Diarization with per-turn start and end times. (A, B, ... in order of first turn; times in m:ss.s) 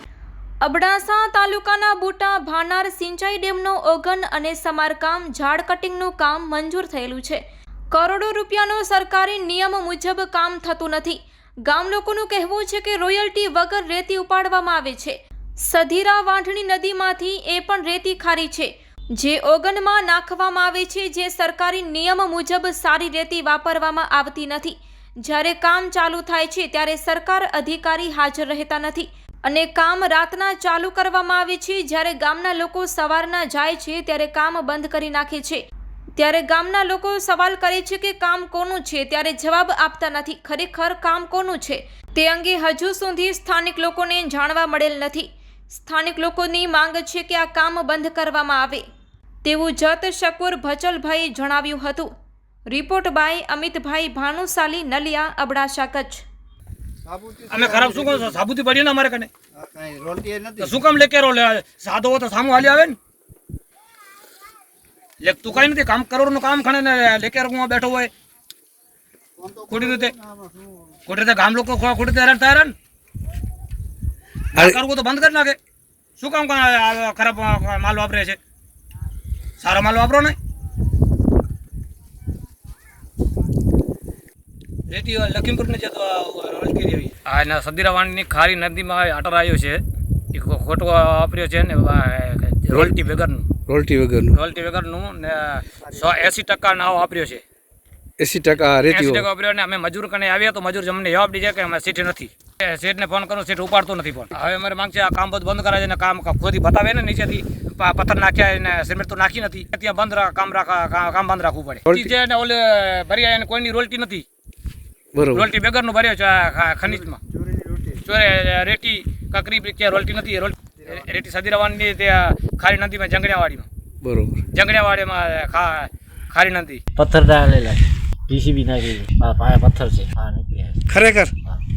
0:00.6-0:35.6 A
0:36.2-0:48.8 A
0:49.4-0:52.1 A
0:52.7-0:56.2 A
0:57.0-0:58.4 B
0:57.5-0:59.3 C
0:59.5-1:00.8 B
1:00.6-1:03.0 C
1:05.2-1:08.1 C
1:09.4-1:10.9 B
1:09.7-1:10.1 C
1:11.1-1:12.7 C
1:14.5-1:15.6 C
1:16.2-1:18.4 C
1:19.6-1:20.4 C
1:24.9-1:29.8 C
1:30.3-1:33.5 C
1:33.7-1:34.4 D
1:34.3-1:37.4 C
1:38.2-1:39.2 D
1:38.9-1:54.2 C
1:51.8-1:52.1 D
1:55.1-1:55.5 D
1:55.3-1:57.2 C
1:56.8-1:58.0 B
1:58.0-2:03.7 C
2:04.0-2:04.4 D
2:04.5-2:06.8 C
2:07.0-2:10.8 E
2:10.9-2:11.3 D